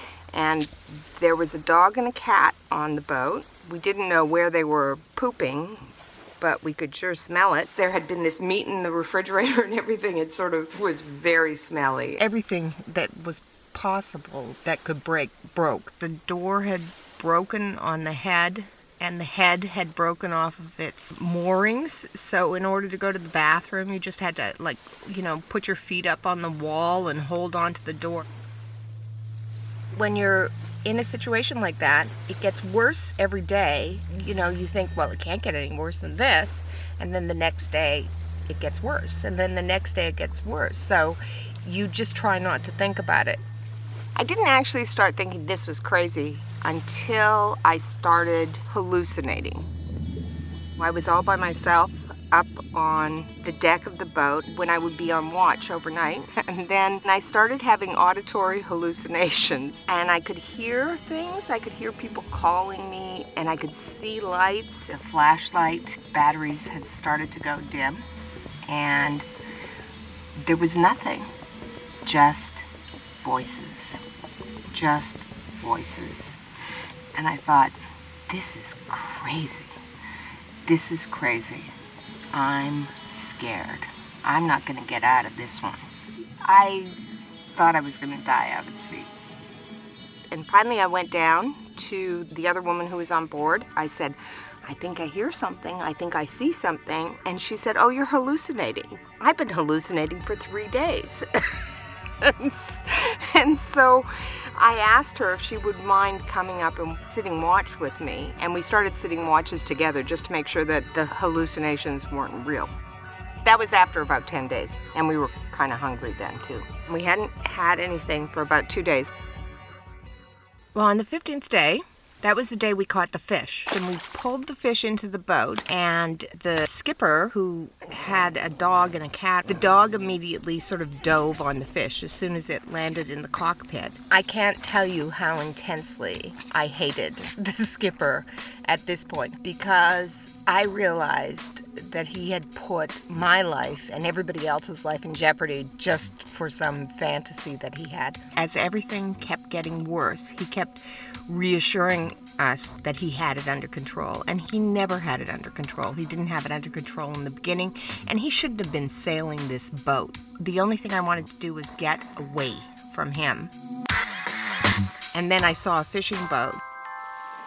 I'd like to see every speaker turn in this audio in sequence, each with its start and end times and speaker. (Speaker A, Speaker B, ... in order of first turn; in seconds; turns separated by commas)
Speaker A: 0.3-28.2, Speaker A: 29.9-43.4, Speaker A: 44.1-49.7, Speaker A: 50.8-68.0, Speaker A: 68.7-69.3, Speaker A: 70.4-71.3, Speaker A: 72.0-72.7, Speaker A: 73.2-74.0, Speaker A: 74.7-76.4, Speaker A: 77.1-77.8, Speaker A: 78.3-79.7, Speaker A: 80.6-81.7, Speaker A: 82.3-85.8, Speaker A: 86.4-87.0, Speaker A: 87.5-89.1, Speaker A: 90.3-101.5, Speaker A: 102.2-112.7, Speaker A: 113.4-119.1, Speaker A: 120.7-163.5, Speaker A: 165.1-166.6